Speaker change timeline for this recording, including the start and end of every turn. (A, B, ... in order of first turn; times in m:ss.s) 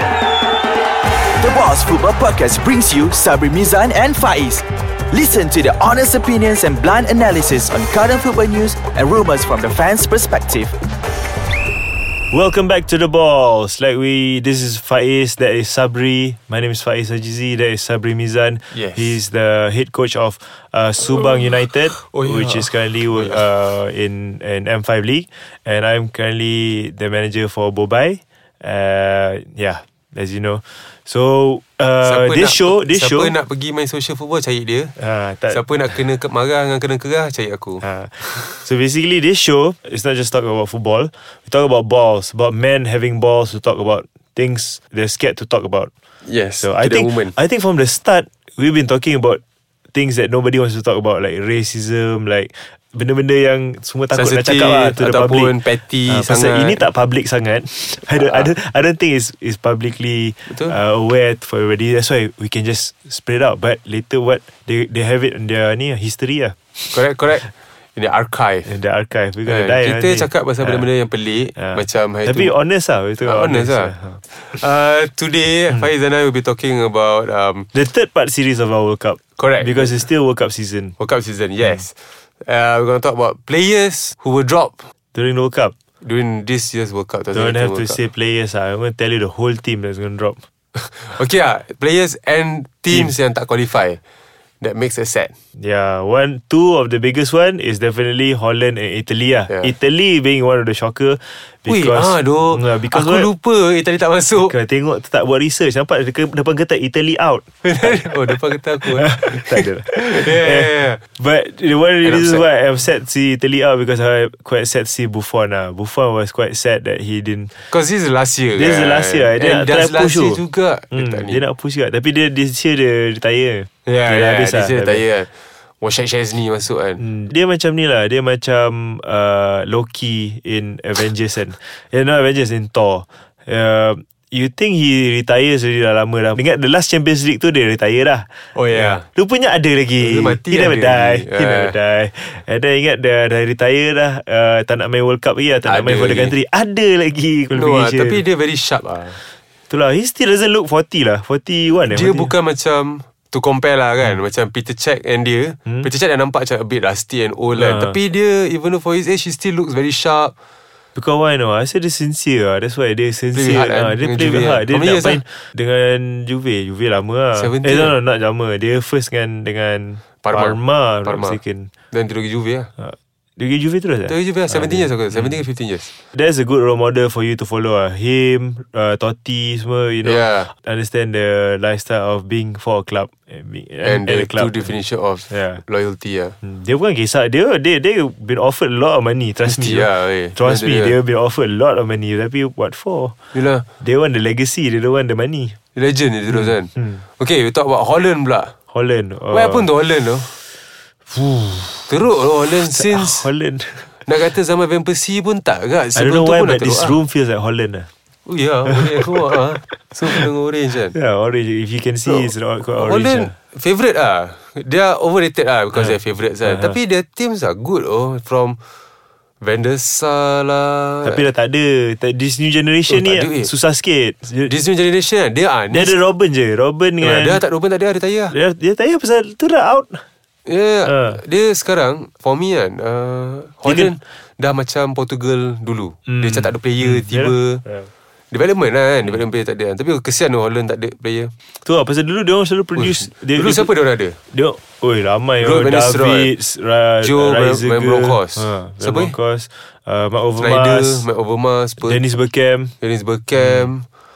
0:01.4-0:10.7 A
0:12.3-0:33.4 B
0:18.7-0:19.2 C
0:22.0-0:23.4 C
0:32.0-0:35.0 C
0:35.0-0:36.0 B
0:35.5-0:38.4 C
0:37.8-0:45.9 B
0:46.2-0:47.4 C
0:46.6-0:49.4 B
0:49.9-1:07.5 B
0:54.1-0:56.8 C
0:58.1-0:58.5 C
1:00.5-1:00.8 C
1:06.9-1:08.7 C
1:08.6-1:10.9 B
1:09.5-1:12.5 C
1:11.6-1:14.2 B
1:13.2-1:17.7 C
1:17.7-1:21.0 B
1:19.4-1:20.0 C
1:21.0-1:24.9 C
1:25.1-1:25.7 B
1:26.0-1:28.0 C
1:27.3-1:30.4 B
1:30.8-1:34.0 C
1:34.6-1:35.3 C
1:35.6-1:43.3 B
1:41.7-1:44.5 C
1:44.4-1:57.7 B
1:47.6-1:51.0 C
1:52.0-1:52.4 C
1:57.7-2:01.4 C
1:58.5-2:00.4 B
2:00.9-2:05.0 B
2:03.8-2:07.0 C
2:07.0-2:28.2 B
2:18.5-2:19.0 C
2:20.0-2:21.8 C
2:25.6-2:26.4 C
2:27.5-2:29.2 C
2:29.2-2:32.3 B
2:31.9-2:40.3 C
2:37.5-2:38.0 B
2:41.0-2:51.7 B
2:43.3-2:45.2 C
2:47.4-2:48.0 C
2:50.2-2:51.4 C
2:51.9-2:52.7 C
2:52.8-2:55.4 B
2:54.1-2:55.9 C
2:56.1-3:04.7 B
3:00.0-3:00.5 C
3:03.8-3:06.4 C
3:05.3-3:05.6 B
3:06.4-3:13.2 B
3:09.4-3:11.0 C
3:13.3-3:13.7 C
3:13.8-3:15.6 B
3:15.8-3:18.5 C
3:16.3-3:17.0 B
3:18.7-3:19.7 B
3:19.3-3:20.4 C
3:20.4-3:22.0 B
3:21.9-3:23.3 C
3:22.7-3:24.0 B
3:24.0-3:27.0 C
3:26.0-3:27.9 B
3:28.3-3:31.0 C
3:29.6-3:30.2 B
3:30.9-3:33.3 B
3:32.1-3:38.6 C
3:35.7-3:36.8 B
3:39.4-3:41.2 C
3:41.0-3:44.6 B
3:42.9-3:43.5 C
3:44.4-3:46.0 C
3:45.7-3:47.4 B
3:47.0-3:48.4 C
3:48.3-3:50.0 B
3:50.5-3:57.6 C
3:50.9-3:51.2 B
3:53.6-3:53.9 B
3:56.1-3:57.9 B
3:58.3-4:01.3 C
4:01.6-4:03.7 B
4:02.8-4:04.2 C
4:04.3-4:11.1 B
4:05.4-4:06.3 C
4:07.0-4:09.1 C
4:10.4-4:12.0 C
4:11.8-4:12.8 B
4:12.8-4:13.9 C
4:13.4-4:13.7 B